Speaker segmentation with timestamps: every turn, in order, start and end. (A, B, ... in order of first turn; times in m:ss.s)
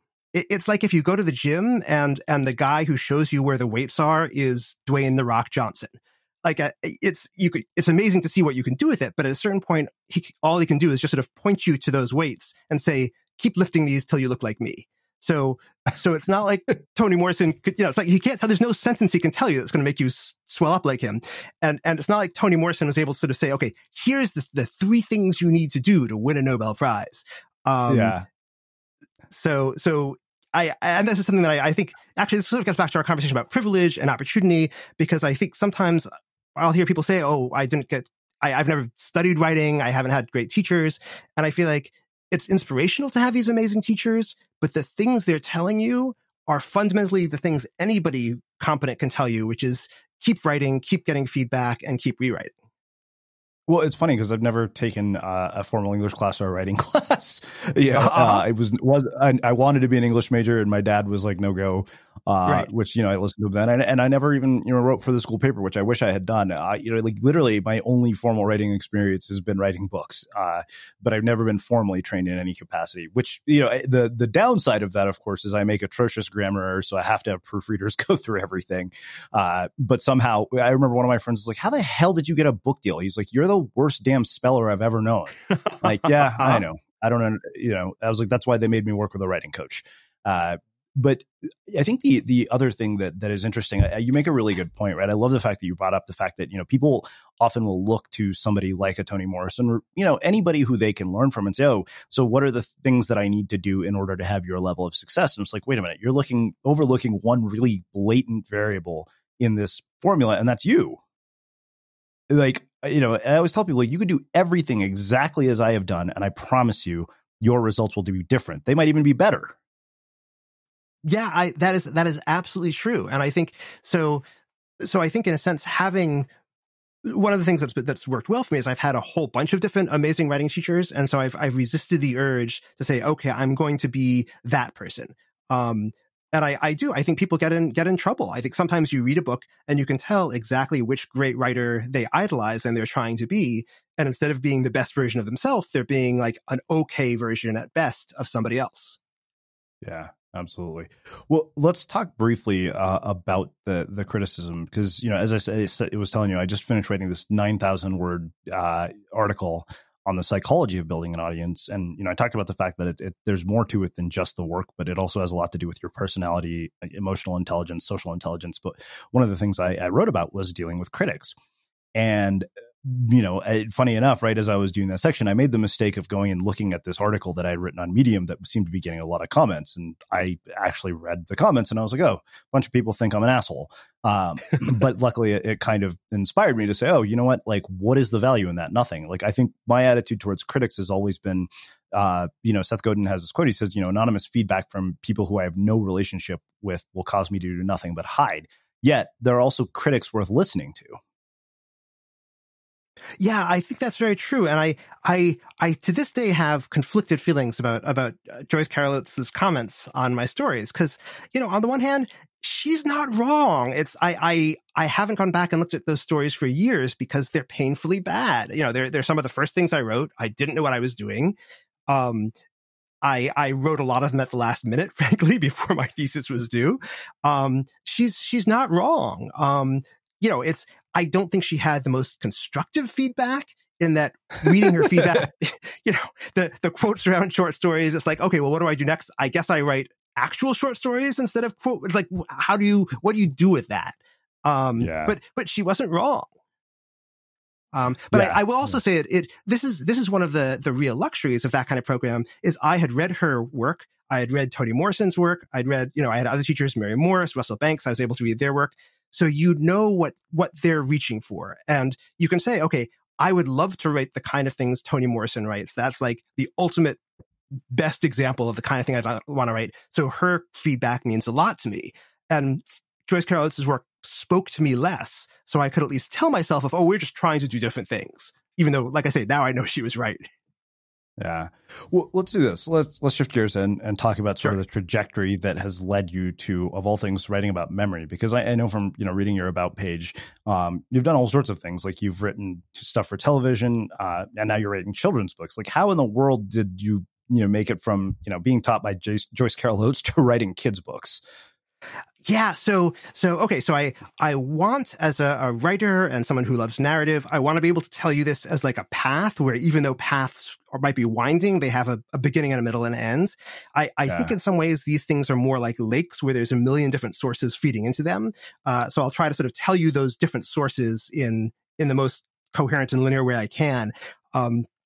0:00.3-0:28.2 A
0:27.9-0:28.2 B
0:29.3-0:52.5 A
0:53.7-1:51.0 B
0:57.9-0:58.4 A
1:25.7-1:26.6 A
1:52.3-1:59.5 B
2:01.0-2:04.2 A
2:04.8-2:06.3 A
2:07.0-2:29.0 A
2:29.8-2:51.3 B
2:51.9-3:21.0 B
3:23.2-3:41.4 A
3:41.9-3:42.3 A
3:43.0-4:06.3 A
4:04.8-4:05.2 B
4:07.7-4:27.0 A
4:08.1-4:08.8 B
4:27.7-4:40.2 A
4:41.2-5:01.2 B
5:02.2-5:24.7 A